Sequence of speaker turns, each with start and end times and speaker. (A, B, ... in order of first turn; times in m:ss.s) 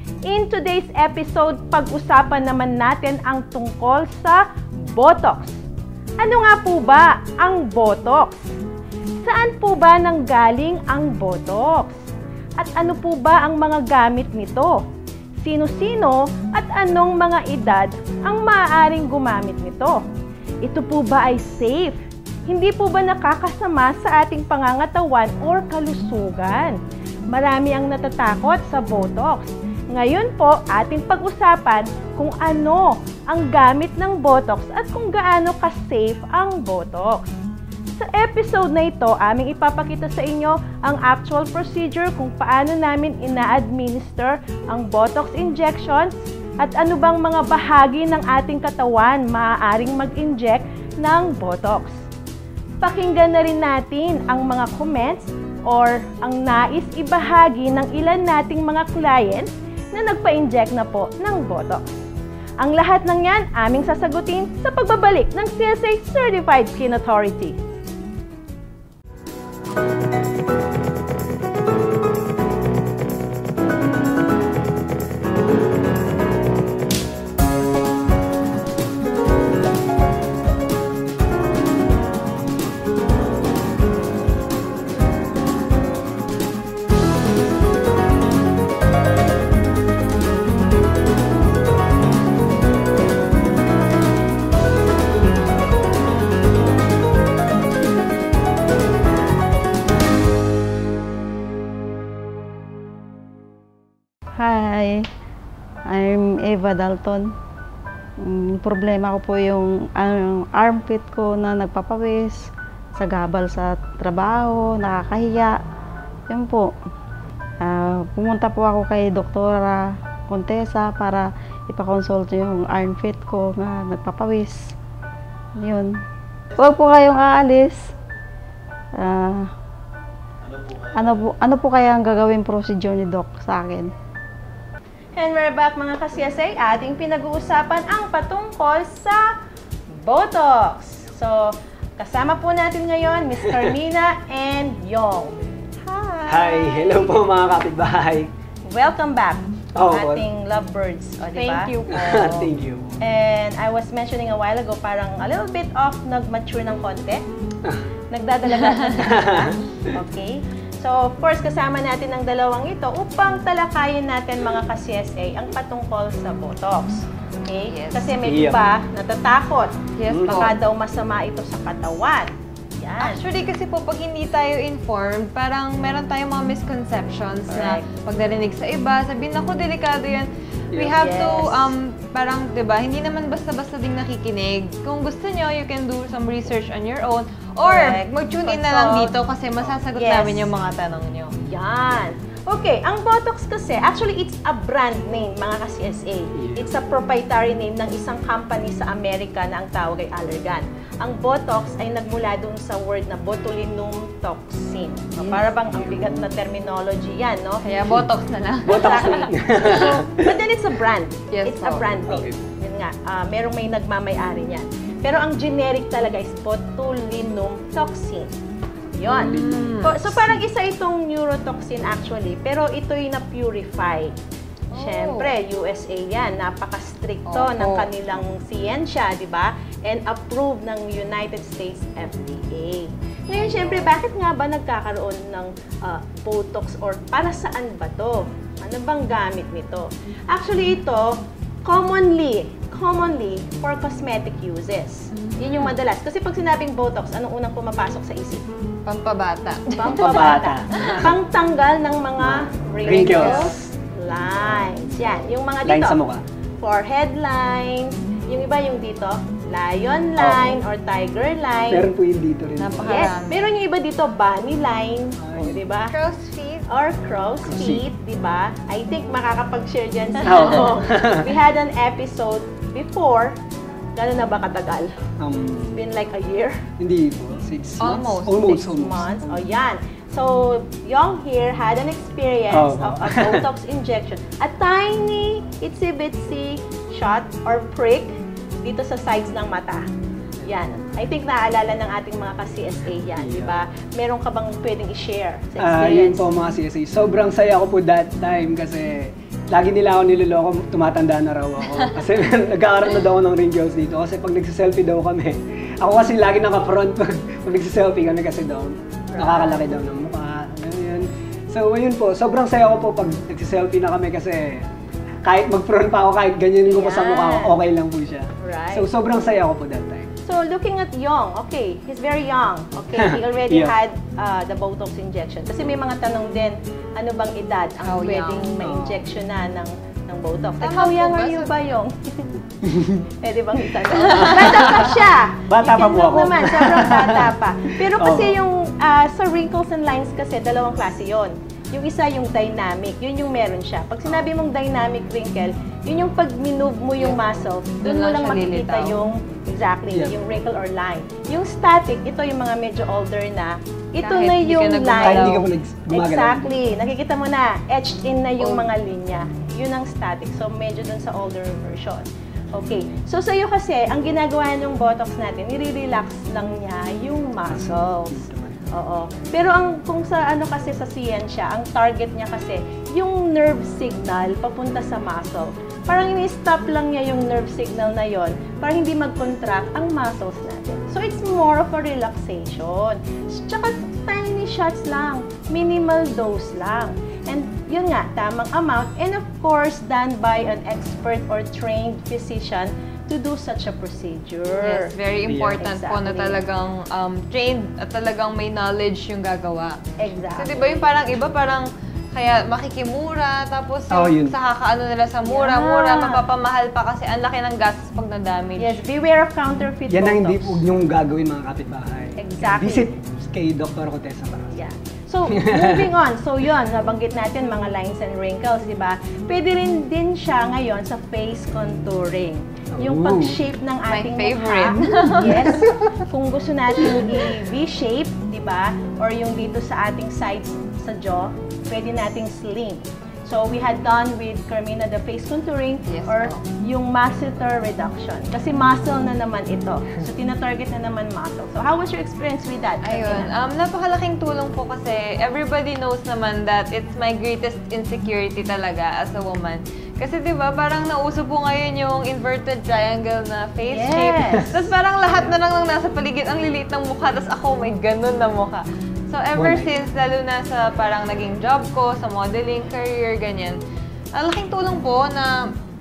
0:00.2-0:05.6 A
0:06.2-0:08.6 A
0:09.2-0:14.8 A
0:15.4-0:20.0 A
0:20.6-0:26.8 A
0:27.3-0:37.4 A
0:38.0-0:52.1 A
0:52.8-1:02.0 A
1:02.6-1:07.6 A
1:44.4-1:45.1 B
1:45.9-1:47.3 B
1:48.2-1:55.6 B
1:56.3-1:56.7 B
1:57.6-2:04.8 B
2:05.6-2:05.9 B
2:06.5-2:07.9 B
2:09.0-2:09.5 B
2:10.8-2:13.9 B
2:15.2-2:19.3 A
2:19.9-2:27.2 A
2:23.4-2:23.7 C
2:26.3-2:28.3 C
2:28.7-2:31.7 A
2:29.7-2:30.3 C
2:31.3-2:32.5 D
2:31.9-2:33.0 C
2:33.0-2:37.2 A
2:38.1-2:53.2 A
2:39.0-2:39.9 C
2:47.6-2:48.1 D
2:48.2-2:48.6 C
2:50.0-2:50.5 D
2:50.1-2:50.5 C
2:53.0-3:11.4 D
2:57.5-2:57.8 A
3:00.7-3:01.7 A
3:07.6-3:09.1 A
3:09.9-3:10.5 A
3:11.4-3:27.6 A
3:16.3-3:16.7 C
3:25.3-3:26.3 C
3:27.6-3:29.7 D
3:28.6-3:30.4 C
3:28.7-3:38.4 A
3:31.3-3:31.8 D
3:32.1-3:32.5 C
3:39.0-3:44.2 A
3:39.0-3:40.1 D
3:39.2-3:40.4 C
3:44.7-3:45.3 D
3:44.7-4:08.4 A
3:47.3-3:47.9 D
3:53.3-3:53.9 D
4:05.1-4:05.8 D
4:08.8-4:11.0 D
4:09.8-4:16.0 A
4:09.8-4:11.1 C
4:12.2-4:16.2 C
4:12.9-4:13.5 D
4:16.6-4:21.8 A
4:20.2-4:20.6 C
4:21.7-4:22.9 C
4:22.6-4:23.4 D
4:22.8-4:25.9 A
4:25.2-4:25.6 C
4:25.9-4:26.6 D
4:26.7-4:33.4 A
4:27.4-4:27.8 C
4:30.2-4:31.3 C
4:30.2-4:30.6 D
4:34.0-4:35.0 A
4:35.2-4:35.8 C
4:35.7-4:36.7 A
4:36.8-4:39.4 C
4:37.8-4:38.6 D
4:38.4-4:48.1 A
4:42.5-4:43.5 C
4:48.6-4:49.9 A
4:50.4-4:56.3 A
4:53.1-4:53.6 C
4:55.6-5:14.6 C
5:09.1-5:09.6 A
5:15.2-5:20.1 C
5:16.7-5:17.5 A
5:18.4-5:18.9 A
5:20.2-5:32.4 A
5:23.0-5:23.7 C
5:27.8-5:28.5 D
5:28.6-5:29.0 C
5:30.6-5:31.5 D
5:32.6-5:33.0 C
5:33.1-6:34.9 A
5:33.9-5:38.4 C
5:34.0-5:34.9 D
5:47.0-5:49.0 D
5:49.9-5:50.2 C
5:54.0-5:55.4 D
5:55.0-5:56.6 C
5:58.4-5:58.7 D
6:07.5-6:08.7 C
6:34.6-6:39.8 D
6:35.2-6:35.6 C
6:35.5-6:36.4 A
6:40.0-6:40.9 A
6:40.4-6:48.8 D
6:43.9-6:44.4 C
6:45.3-6:46.2 A
6:48.6-6:50.6 A
6:49.9-6:54.6 C
6:52.2-6:52.9 A
6:54.5-7:23.3 A
6:55.3-6:55.9 C
7:02.7-7:03.4 C
7:03.9-7:05.6 D
7:05.3-7:05.9 C
7:15.9-7:16.4 D
7:22.8-7:43.6 D
7:33.7-7:34.6 A
7:39.3-7:39.8 C
7:44.2-7:45.4 D